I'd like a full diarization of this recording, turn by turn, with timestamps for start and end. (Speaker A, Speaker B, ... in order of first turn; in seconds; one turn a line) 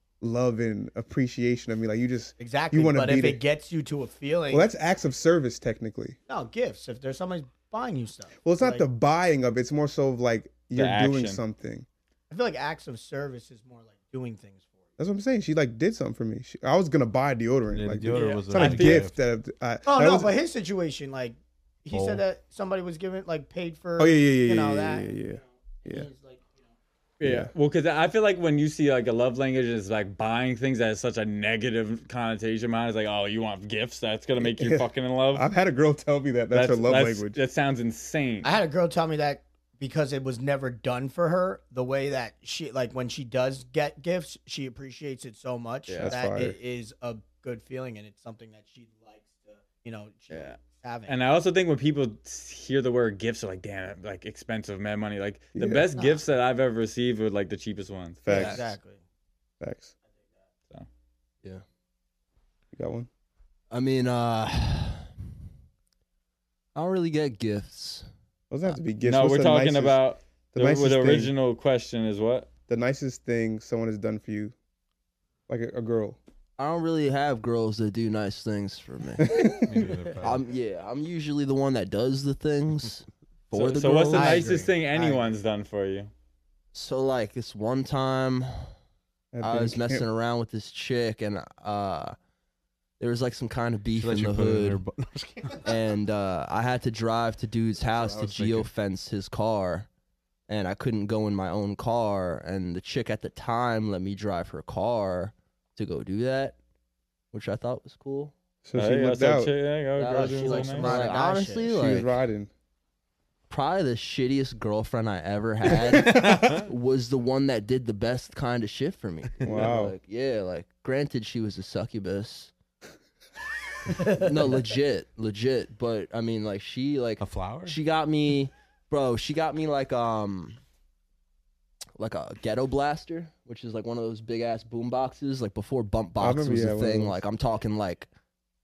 Speaker A: 0.2-3.4
Speaker B: 2.4-4.7
Speaker A: 4.5-6.2
Speaker B: 6.3-8.8
Speaker A: 8.4-11.8
Speaker C: 10.7-11.4
Speaker B: 12.3-14.7
Speaker A: 15.0-20.3
Speaker D: 17.7-19.1
Speaker C: 18.1-19.1
Speaker B: 19.9-25.1
Speaker D: 21.9-22.2
Speaker A: 24.0-26.1
Speaker B: 25.9-26.4
Speaker C: 27.2-35.5
Speaker A: 27.2-27.5
Speaker A: 34.4-37.4
Speaker C: 36.5-38.5
Speaker B: 38.4-51.1
Speaker C: 45.9-46.2
Speaker A: 46.0-46.6
Speaker C: 50.3-50.5
Speaker C: 51.1-58.5
Speaker A: 55.5-55.9
Speaker A: 58.2-58.6
Speaker E: 58.3-58.6
Speaker B: 58.3-59.0
Speaker A: 59.6-59.9
Speaker A: 62.7-63.1
Speaker E: 63.7-65.1
Speaker E: 66.7-68.1
Speaker A: 68.5-70.0
Speaker C: 69.0-72.5
Speaker A: 70.5-71.3
Speaker A: 72.7-74.5
Speaker A: 75.5-76.2
Speaker E: 76.6-79.3
Speaker A: 79.2-79.8
Speaker D: 79.6-80.5
Speaker E: 80.2-84.6
Speaker C: 83.5-86.1
Speaker B: 84.1-85.2
Speaker E: 86.7-88.7
Speaker A: 89.3-90.0
Speaker E: 89.4-92.2
Speaker E: 93.0-94.8
Speaker D: 93.9-95.8
Speaker E: 95.6-99.9
Speaker D: 97.8-98.7
Speaker E: 100.5-106.6
Speaker E: 107.3-108.3
Speaker A: 108.6-109.5
Speaker C: 108.8-111.0
Speaker E: 110.0-112.1
Speaker B: 110.3-111.7
Speaker A: 111.6-112.5
Speaker E: 113.5-122.5
Speaker A: 115.8-116.4
Speaker D: 116.2-116.6
Speaker D: 119.4-119.7
Speaker A: 119.4-120.0
Speaker E: 124.0-130.6
Speaker D: 127.2-127.8
Speaker E: 131.9-138.1
Speaker A: 136.2-137.2